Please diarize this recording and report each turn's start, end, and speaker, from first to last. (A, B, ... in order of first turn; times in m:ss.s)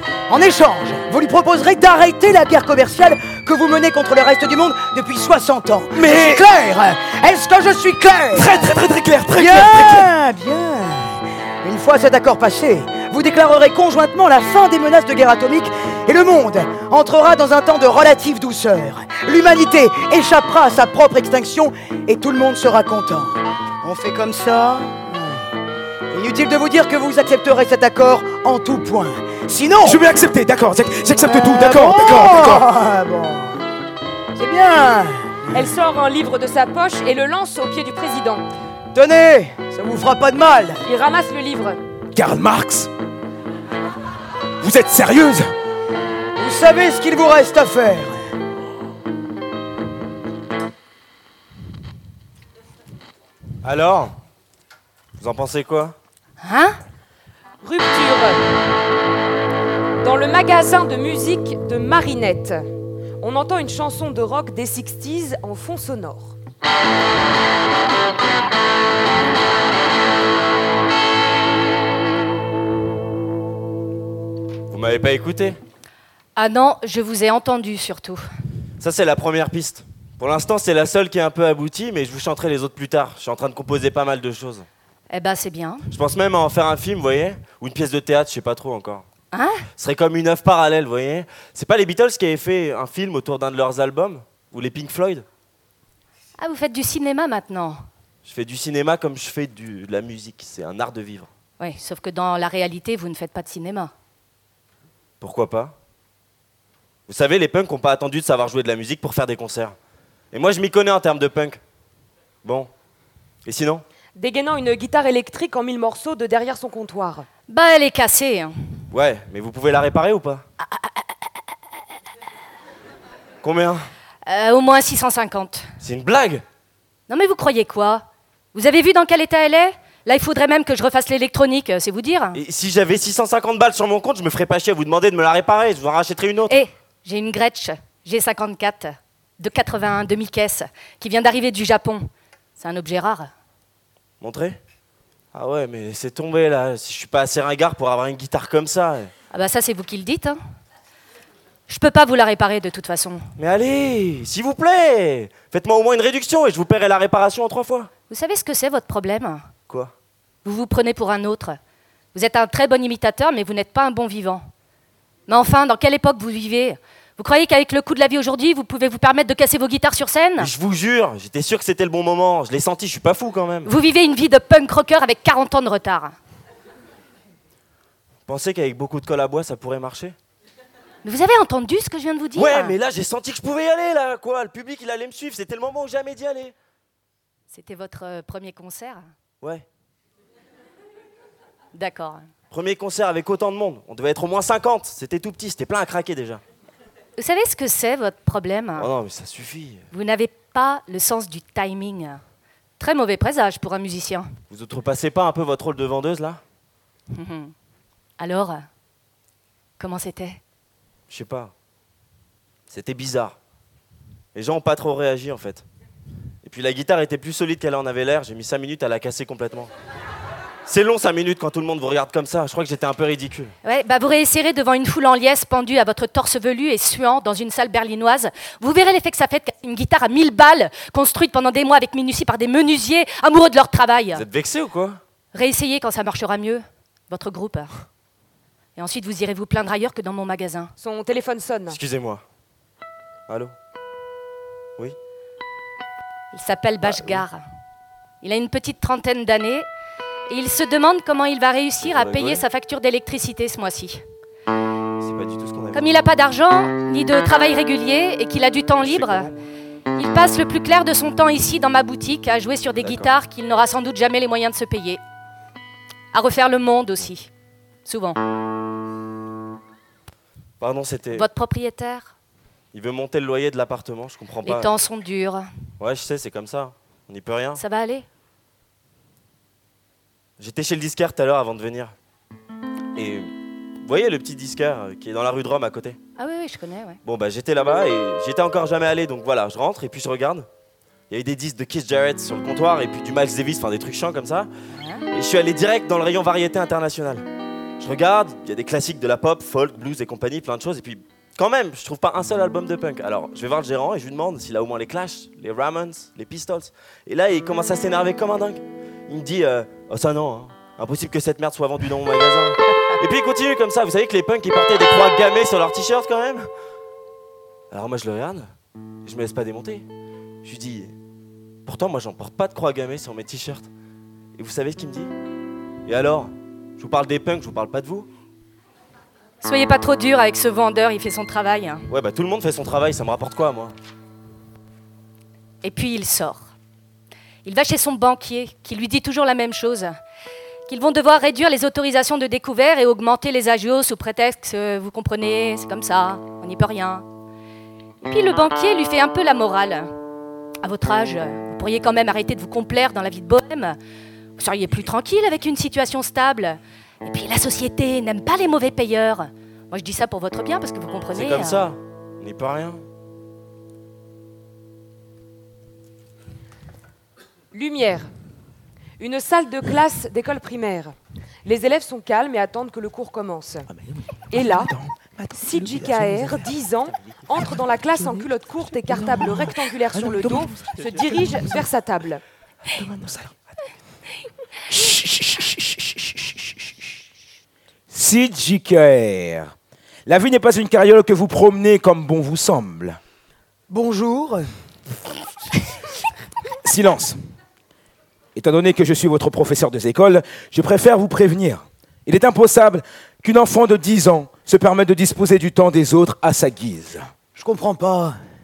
0:00.3-0:08.7 A
0:05.9-0:06.5 B
0:08.3-0:10.1 B
0:09.4-0:25.5 A
0:26.1-0:30.0 A
0:29.8-0:32.7 B
0:31.2-0:33.6 A
0:34.4-0:35.6 A
0:35.5-0:38.4 C
0:38.9-0:40.8 A
0:40.8-0:41.8 C
0:42.1-0:42.9 B
0:44.6-0:45.5 B
0:46.4-0:48.3 A
0:53.6-0:54.2 D
0:55.2-0:56.0 D
0:56.4-0:56.8 E
0:57.6-0:58.4 C
1:00.0-1:02.6 C
1:03.2-1:06.4 C
1:14.7-1:15.6 D
1:16.4-1:18.2 E
1:18.8-1:24.7 D
1:25.1-1:25.9 E
1:25.9-1:29.1 D
1:29.3-1:29.6 E
1:29.8-1:35.2 D
1:36.4-1:37.8 E
1:38.2-1:41.3 D
1:41.6-1:43.9 E
1:45.2-1:45.8 D
1:47.1-1:49.8 D
1:50.3-1:51.6 D
1:52.4-1:52.7 D
1:53.4-1:53.8 D
1:54.2-1:57.3 C
1:57.5-1:58.5 E
1:58.9-2:00.4 D
2:00.6-2:01.2 E
2:03.4-2:03.9 D
2:04.3-2:05.7 E
2:05.8-2:06.4 D
2:07.1-2:12.4 E
2:12.4-2:16.6 D
2:16.5-2:23.3 E
2:24.2-2:24.6 D
2:25.3-2:29.1 D
2:29.3-2:30.4 E
2:31.7-2:33.3 E
2:33.4-2:37.9 D
2:38.1-2:39.5 E
2:40.4-2:41.6 E
2:42.1-2:44.5 E
2:45.3-2:50.5 E
2:50.4-2:53.7 D
2:53.7-2:56.2 E
2:58.3-3:00.2 D
3:01.0-3:02.8 E
3:02.4-3:06.6 D
3:07.5-3:09.1 E
3:11.7-3:12.3 E
3:12.5-3:16.4 D
3:17.2-3:18.9 E
3:18.8-3:19.9 D
3:19.9-3:22.2 E
3:22.8-3:24.3 E
3:24.5-3:26.4 D
3:27.1-3:27.5 E
3:28.2-3:28.7 E
3:29.8-3:30.4 E
3:31.1-3:31.5 D
3:32.7-3:33.4 D
3:34.4-3:35.6 D
3:36.4-3:39.7 D
3:40.7-3:43.6 D
3:43.6-3:54.2 E
3:54.1-3:55.0 D
3:55.3-3:57.8 E
3:58.8-4:00.7 E
4:00.8-4:01.8 C
4:01.7-4:02.2 D
4:03.3-4:03.5 D
4:06.3-4:07.4 E
4:06.8-4:07.2 D
4:08.2-4:09.7 E
4:10.3-4:14.0 E
4:11.8-4:12.4 D
4:15.0-4:16.0 D
4:15.7-4:19.3 E
4:18.8-4:19.4 D
4:20.0-4:25.0 E
4:22.8-4:23.1 D
4:26.1-4:27.3 E
4:27.8-4:28.2 E
4:30.6-4:31.3 D
4:31.1-4:32.1 E
4:32.7-4:34.7 D
4:34.4-4:35.5 E
4:35.8-4:37.6 D
4:37.6-4:38.1 E
4:40.4-4:41.9 D
4:43.0-4:46.0 D
4:46.2-4:47.0 E
4:47.0-4:50.5 D
4:51.1-4:54.5 D
4:54.7-4:55.0 E
4:55.1-4:57.3 D
4:57.8-5:16.5 D
5:17.7-5:18.5 D
5:19.0-5:19.9 D
5:20.4-5:20.9 D
5:21.7-5:23.7 D
5:24.4-5:25.1 D
5:25.9-5:28.1 D
5:29.4-5:31.9 E
5:31.9-5:33.8 D
5:35.6-5:36.5 E
5:37.4-5:40.0 E
5:40.7-5:47.0 E
5:48.0-5:50.0 E
5:50.6-5:53.8 E
5:54.4-6:01.7 E
6:01.1-6:02.8 D
6:07.5-6:08.1 C
6:09.0-6:13.7 C
6:13.7-6:16.5 B
6:14.3-6:14.7 C
6:15.4-6:22.2 C
6:18.0-6:18.2 B
6:18.9-6:21.5 B
6:22.7-6:23.4 B
6:24.7-6:26.7 B
6:27.9-6:29.5 B
6:30.1-6:33.0 B
6:33.7-6:34.5 A
6:36.6-6:37.2 B
6:38.4-6:47.1 B
6:47.4-6:48.2 A